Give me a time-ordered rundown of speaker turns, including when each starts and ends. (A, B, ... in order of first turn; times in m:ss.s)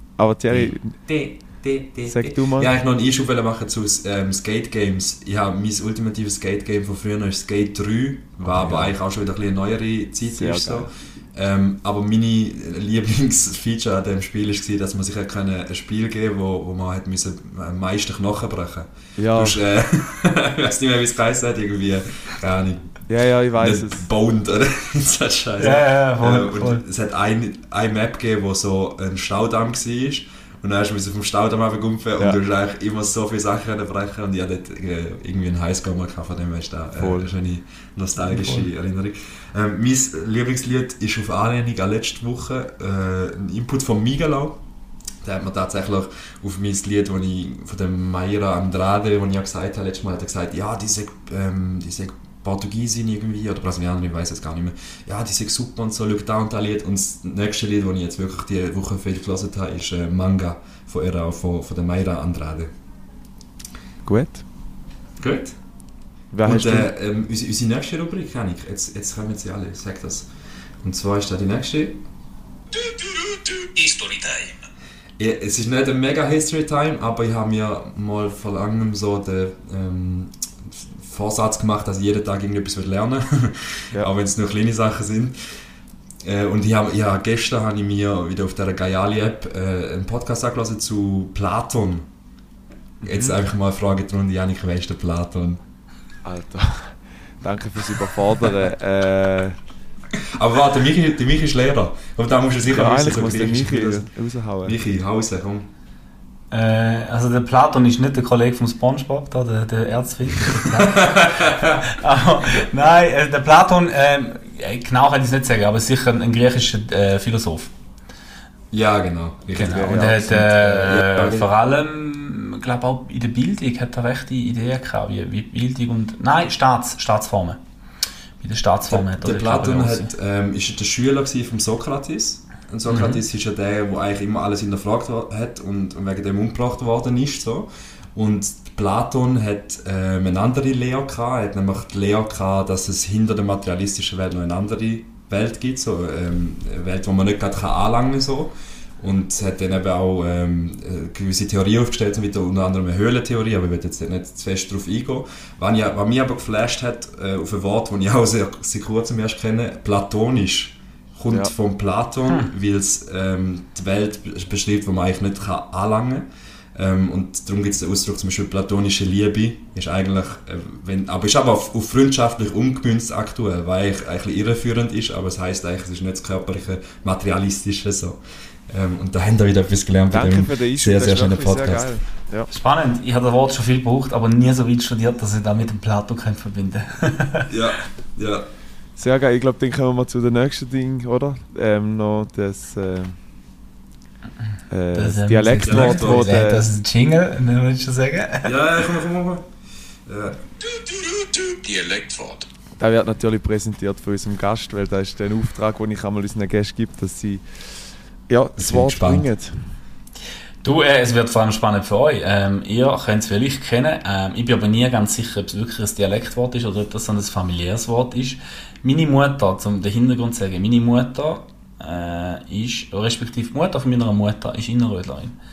0:00.2-0:01.0 A
0:00.5-0:23.0 B
0:02.1-0:02.7 A
0:08.4-0:09.0 A
0:10.3-0:10.9 A
0:19.2-0:19.6 A
0:23.1-0:24.1 A
0:23.6-0:44.6 B
0:25.6-0:26.8 C
0:37.0-0:37.3 A
0:38.3-0:38.7 A
0:45.2-1:02.7 B
1:04.0-1:04.4 A
1:05.2-1:05.6 B
1:06.3-1:06.9 A
1:06.4-1:10.3 B
1:10.8-1:12.0 B
1:12.7-1:14.7 D
1:15.2-1:25.4 B
1:26.2-1:32.1 B
1:33.0-1:33.4 A
1:33.0-1:35.6 B
1:36.2-1:39.6 A
1:40.4-1:44.1 B
1:42.7-1:44.8 A
1:44.6-1:45.7 B
1:46.5-1:57.7 C
1:50.7-1:51.8 B
1:58.7-2:01.5 B
1:59.6-2:07.6 C
1:59.6-2:01.5 A
2:08.4-2:10.1 C
2:08.9-3:01.9 B
2:12.9-2:13.2 C
3:00.1-3:02.5 A
3:02.5-3:07.5 C
3:07.5-3:08.5 B
3:09.0-3:13.2 A
3:14.7-3:16.7 A
3:14.9-3:18.5 C
3:15.6-3:16.3 B
3:18.4-3:19.5 B
3:20.1-3:20.4 B
3:20.6-3:22.5 D
3:22.8-3:27.4 A
3:28.3-3:29.8 A
3:28.6-3:29.3 B
3:30.6-3:45.4 C